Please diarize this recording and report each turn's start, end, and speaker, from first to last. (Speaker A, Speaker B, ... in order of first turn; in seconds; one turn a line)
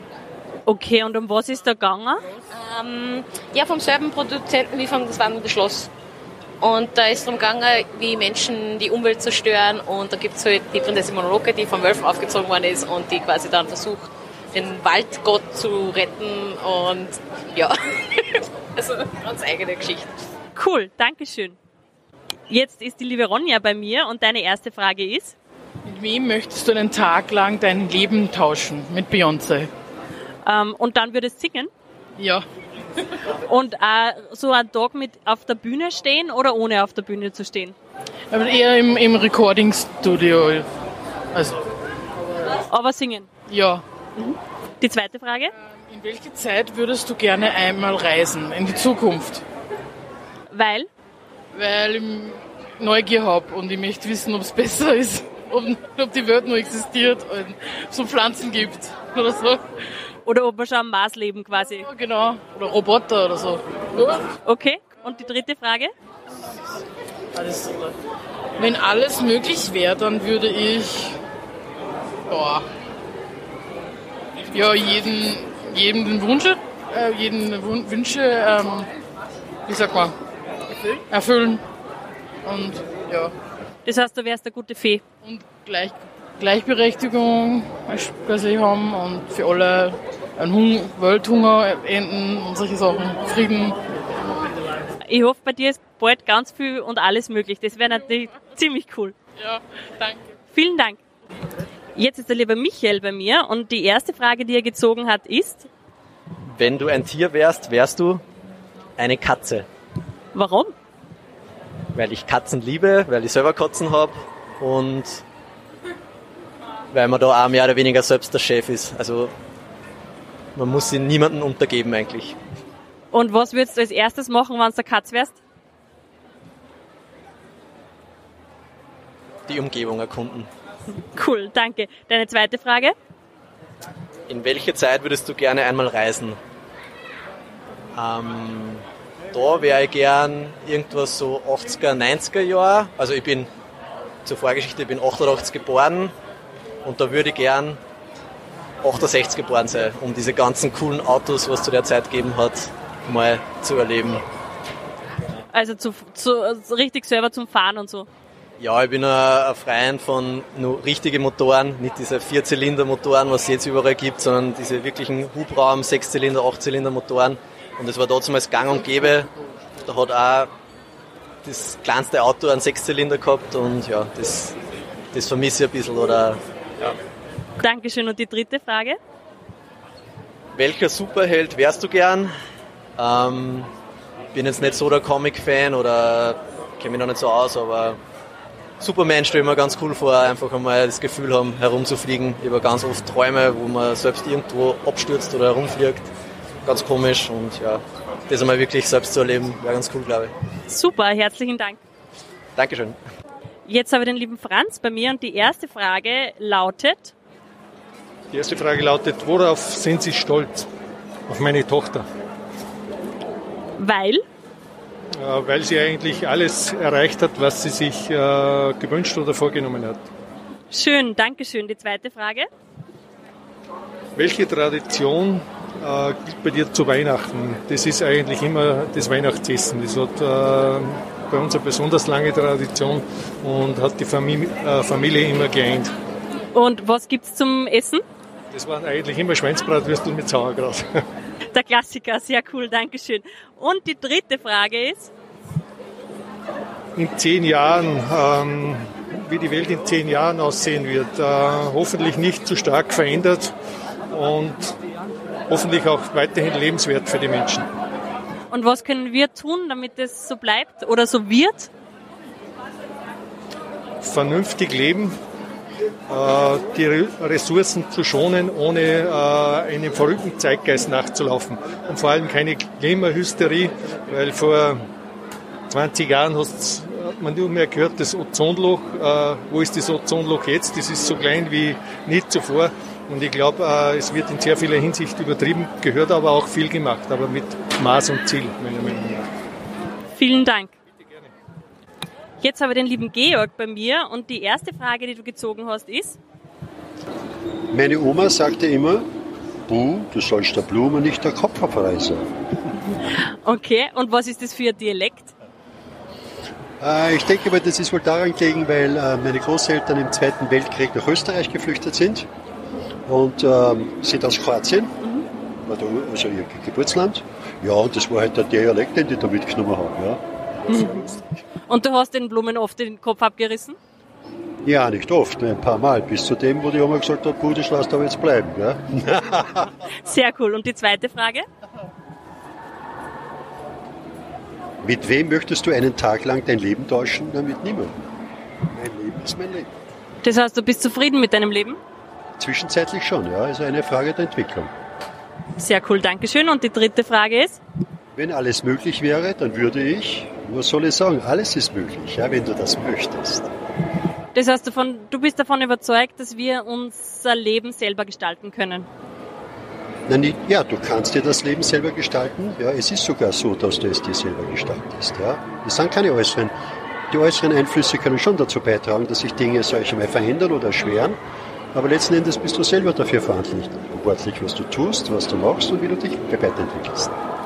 Speaker A: 0.7-2.2
Speaker B: 2.5-5.9
Speaker B: 6.6-20.1
Speaker A: 20.5-21.6
Speaker A: 22.5-25.3
Speaker C: 25.8-29.7
Speaker A: 30.4-31.7
Speaker C: 32.2-32.4
Speaker A: 33.5-37.8
Speaker C: 38.3-40.7
Speaker C: 41.3-41.6
Speaker A: 42.7-43.3
Speaker C: 43.5-43.8
Speaker A: 44.2-45.5
Speaker C: 45.6-49.4
Speaker A: 50.5-50.9
Speaker C: 51.5-59.6
Speaker A: 60.2-61.9
Speaker C: 61.8-64.2
Speaker A: 64.4-65.9
Speaker C: 67.3-67.9
Speaker C: 68.6-71.2
Speaker C: 72.3-72.6
Speaker C: 74.5-78.9
Speaker C: 79.7-80.1
Speaker C: 81.1-81.6
Speaker C: 82.4-83.3
Speaker A: 83.8-85.0
Speaker C: 85.2-93.8
Speaker A: 95.0-99.1
Speaker C: 99.4-100.3
Speaker A: 100.5-101.0
Speaker A: 101.9-105.7
Speaker D: 106.5-108.2
Speaker D: 109.0-109.7
Speaker A: 110.3-110.7
Speaker D: 111.9-115.2
Speaker D: 116.9-119.3
Speaker D: 120.5-122.3
Speaker A: 123.1-125.4
Speaker D: 129.5-130.5
Speaker A: 131.1-132.9
Speaker D: 134.3-136.4
Speaker D: 137.9-143.5
Speaker D: 144.2-146.1
Speaker D: 146.8-147.8
Speaker D: 148.8-154.2
Speaker A: 155.5-158.1
Speaker D: 158.6-169.3
Speaker D: 169.8-170.5
Speaker D: 171.4-174.6
Speaker D: 175.1-176.9
Speaker A: 177.6-179.0
Speaker D: 180.5-182.3
Speaker D: 183.0-183.7
Speaker D: 184.3-188.0
Speaker D: 188.8-196.1
Speaker D: 196.6-200.3
Speaker A: 200.7-201.8
Speaker D: 202.6-203.0
Speaker A: 203.6-207.1
Speaker E: 208.3-210.7
Speaker E: 211.3-212.0
Speaker A: 213.8-214.2
Speaker E: 215.2-220.0
Speaker A: 220.7-222.5
Speaker E: 224.2-235.9
Speaker A: 236.5-238.0
Speaker E: 238.5-240.9
Speaker A: 241.5-245.1
Speaker E: 246.9-253.5
Speaker E: 254.1-254.7
Speaker E: 255.5-257.7
Speaker A: 258.5-261.7
Speaker E: 264.0-265.1
Speaker E: 266.1-274.8
Speaker E: 275.7-289.2
Speaker A: 290.1-290.7
Speaker E: 290.9-291.3
Speaker A: 292.4-296.2
Speaker F: 297.7-299.1
Speaker F: 299.7-302.3
Speaker A: 302.9-305.3
Speaker F: 306.8-312.3
Speaker F: 313.1-314.9
Speaker F: 315.6-321.2
Speaker A: 320.7-320.9
Speaker A: 321.7-323.8
Speaker F: 324.6-329.6
Speaker A: 330.0-331.4
Speaker F: 334.8-337.9
Speaker F: 338.7-339.7
Speaker A: 340.2-341.8
Speaker F: 342.4-344.7
Speaker A: 345.6-347.6
Speaker F: 348.1-353.5
Speaker A: 354.3-358.9
Speaker F: 360.1-366.5
Speaker F: 367.1-371.2
Speaker F: 371.7-377.1